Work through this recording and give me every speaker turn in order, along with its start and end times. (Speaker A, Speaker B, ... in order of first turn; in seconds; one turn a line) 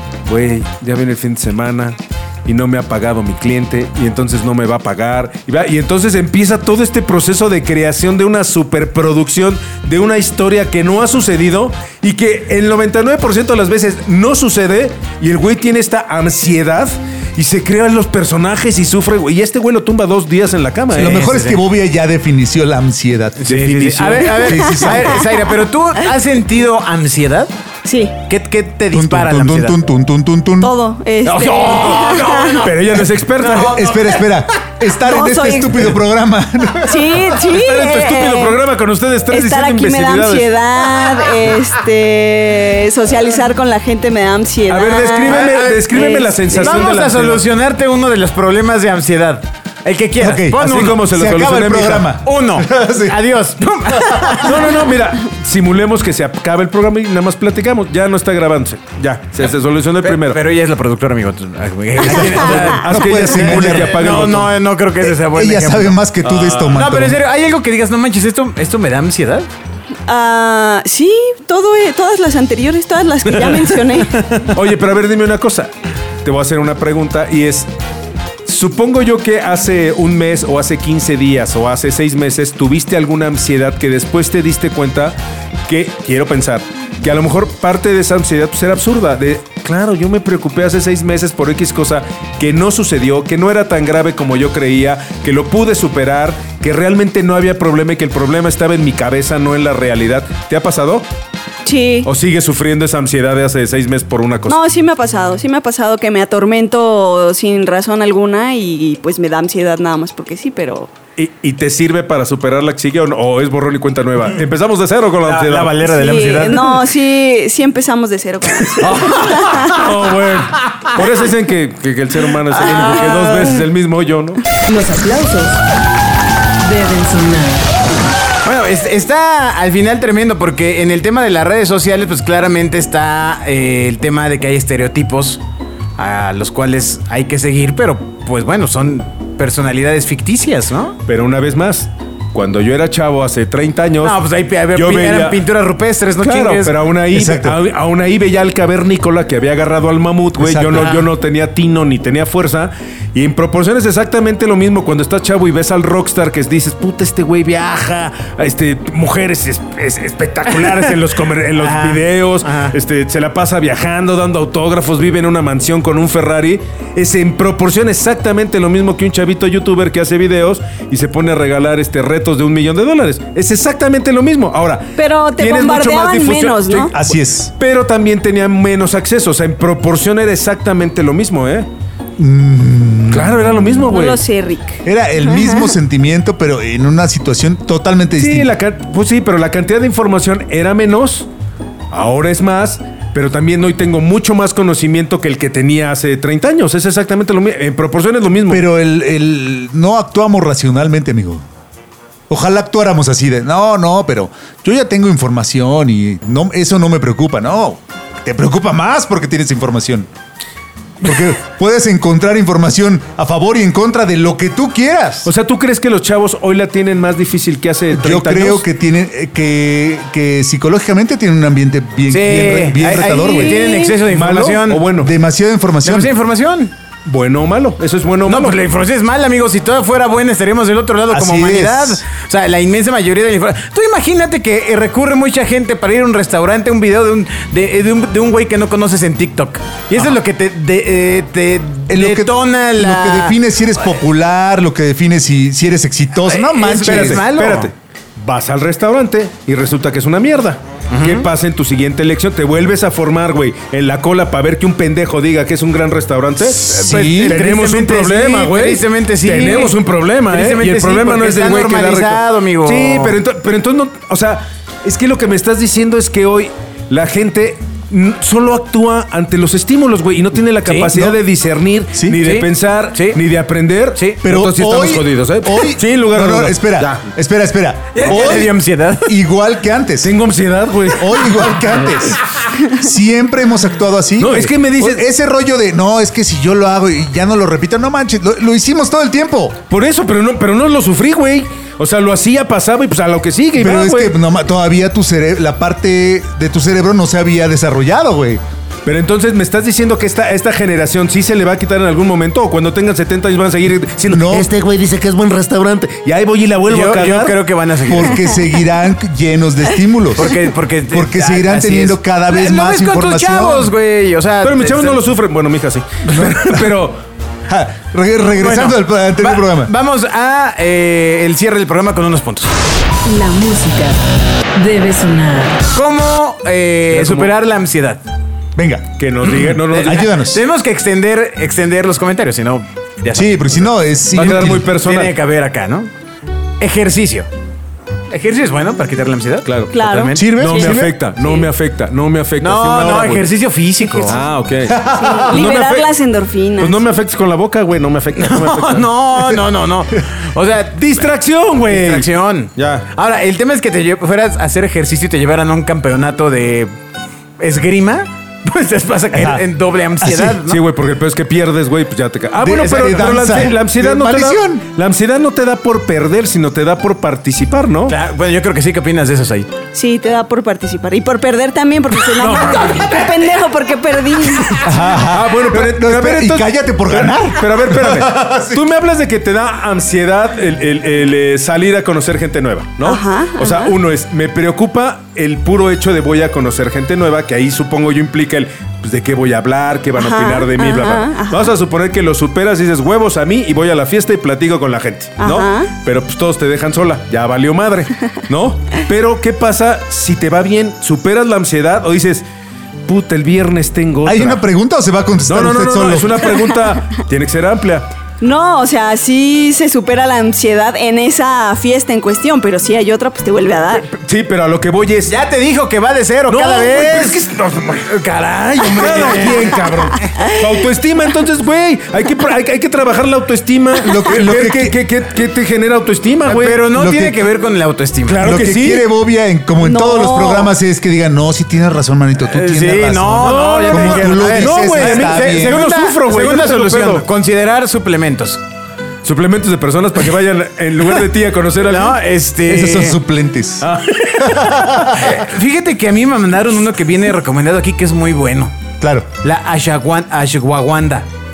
Speaker A: 0.3-21.2
Speaker B: 20.9-21.6
Speaker C: 20.9-23.5
Speaker B: 23.4-27.5
Speaker A: 23.5-24.6
Speaker C: 24.4-25.3
Speaker D: 27.9-28.1
Speaker B: 28.2-29.8
Speaker C: 28.9-30.7
Speaker D: 30.6-32.7
Speaker B: 31.2-34.3
Speaker A: 31.6-33.9
Speaker C: 33.6-37.2
Speaker D: 35.0-35.9
Speaker D: 36.8-38.6
Speaker A: 37.4-40.5
Speaker D: 39.3-46.9
Speaker A: 44.7-47.5
Speaker B: 45.2-51.0
Speaker C: 50.2-53.1
Speaker A: 50.6-52.1
Speaker B: 52.2-54.7
Speaker C: 54.0-54.3
Speaker A: 54.4-60.4
Speaker B: 60.0-66.0
Speaker C: 62.0-64.0
Speaker A: 62.1-64.6
Speaker C: 65.0-67.2
Speaker A: 66.2-66.8
Speaker B: 66.7-69.5
Speaker D: 70.1-74.3
Speaker A: 73.3-73.7
Speaker A: 74.5-75.7
Speaker A: 76.2-77.7
Speaker A: 78.5-85.2
Speaker A: 85.7-101.0
Speaker D: 101.7-102.1
Speaker A: 102.0-104.6
Speaker D: 104.5-110.9
Speaker A: 111.2-115.9
Speaker B: 115.2-116.8
Speaker D: 115.9-119.9
Speaker B: 118.8-119.8
Speaker A: 118.8-124.4
Speaker D: 122.7-123.5
Speaker E: 124.7-125.6
Speaker E: 126.6-127.7
Speaker B: 128.4-135.4
Speaker B: 136.0-141.0
Speaker A: 141.1-144.2
Speaker B: 144.0-146.7
Speaker A: 144.7-145.4
Speaker A: 146.2-177.0
Speaker C: 147.1-147.6
Speaker C: 150.4-151.0
Speaker B: 150.7-151.1
Speaker B: 161.6-162.8
Speaker D: 175.0-176.9
Speaker C: 176.8-177.5
Speaker A: 177.6-181.7
Speaker C: 182.2-183.5
Speaker A: 183.1-184.2
Speaker D: 183.9-185.7
Speaker C: 184.8-188.5
Speaker A: 188.2-191.3
Speaker A: 191.9-198.6
Speaker C: 198.5-201.4
Speaker C: 202.3-210.1
Speaker C: 211.0-215.3
Speaker A: 215.2-218.7
Speaker C: 217.9-223.7
Speaker B: 222.1-224.8
Speaker D: 223.2-224.0
Speaker A: 224.1-225.1
Speaker C: 225.0-226.1
Speaker B: 225.8-226.7
Speaker A: 227.1-228.6
Speaker B: 228.2-243.4
Speaker C: 231.1-232.0
Speaker C: 241.9-247.2
Speaker B: 246.2-247.7
Speaker A: 246.7-277.1
Speaker B: 250.9-251.3
Speaker B: 256.6-263.2
Speaker C: 256.6-257.4
Speaker B: 270.6-270.9
Speaker C: 270.9-271.2
Speaker B: 272.1-273.2
Speaker C: 274.2-280.1
Speaker B: 277.9-279.1
Speaker A: 280.0-282.0
Speaker C: 280.9-289.6
Speaker A: 284.2-285.1
Speaker A: 289.7-294.1
Speaker C: 293.6-298.4
Speaker A: 298.9-307.4
Speaker C: 304.1-305.4
Speaker B: 306.7-308.4
Speaker C: 307.9-313.7
Speaker B: 310.2-315.0
Speaker A: 314.4-317.0
Speaker C: 316.1-316.8
Speaker C: 317.5-319.7
Speaker B: 318.4-322.5
Speaker E: 323.1-324.0
Speaker E: 324.6-325.7
Speaker B: 325.7-328.0
Speaker A: 326.9-327.3
Speaker C: 328.6-328.9
Speaker A: 329.0-330.1
Speaker B: 329.3-335.9
Speaker C: 329.8-330.4
Speaker C: 333.1-334.7
Speaker A: 334.1-335.1
Speaker B: 336.6-337.3
Speaker B: 338.1-340.7
Speaker A: 339.5-339.7
Speaker D: 339.7-340.7
Speaker C: 340.1-341.0
Speaker A: 340.4-343.3
Speaker B: 342.4-344.2
Speaker A: 344.1-345.9
Speaker C: 344.7-345.4
Speaker D: 345.0-346.8
Speaker A: 346.6-348.9
Speaker B: 348.2-351.1
Speaker A: 350.8-352.9
Speaker B: 351.7-356.7
Speaker B: 357.4-360.6
Speaker C: 359.1-359.4
Speaker C: 360.0-360.4
Speaker A: 360.5-368.0
Speaker C: 362.4-364.6
Speaker B: 362.6-363.3
Speaker B: 367.9-369.5
Speaker D: 369.7-374.8
Speaker A: 372.1-373.2
Speaker C: 374.6-378.6
Speaker A: 375.0-402.2
Speaker D: 382.8-383.7
Speaker D: 389.9-391.5
Speaker D: 395.2-395.7
Speaker A: 402.9-404.4
Speaker C: 404.1-406.3
Speaker A: 405.3-407.9
Speaker D: 408.2-413.9
Speaker A: 413.9-415.1
Speaker B: 415.1-417.2
Speaker A: 416.3-418.0
Speaker B: 417.9-419.7
Speaker A: 418.6-426.7
Speaker C: 423.8-424.8
Speaker B: 426.3-428.2
Speaker C: 426.7-427.2
Speaker A: 428.1-428.9
Speaker C: 428.2-435.7
Speaker D: 429.6-430.5
Speaker B: 432.3-438.4
Speaker A: 433.2-437.1
Speaker A: 439.0-442.0
Speaker B: 441.6-443.0
Speaker C: 442.5-443.7
Speaker A: 443.6-444.4
Speaker B: 444.1-448.6
Speaker C: 444.4-445.0
Speaker C: 448.8-449.1
Speaker B: 449.2-451.1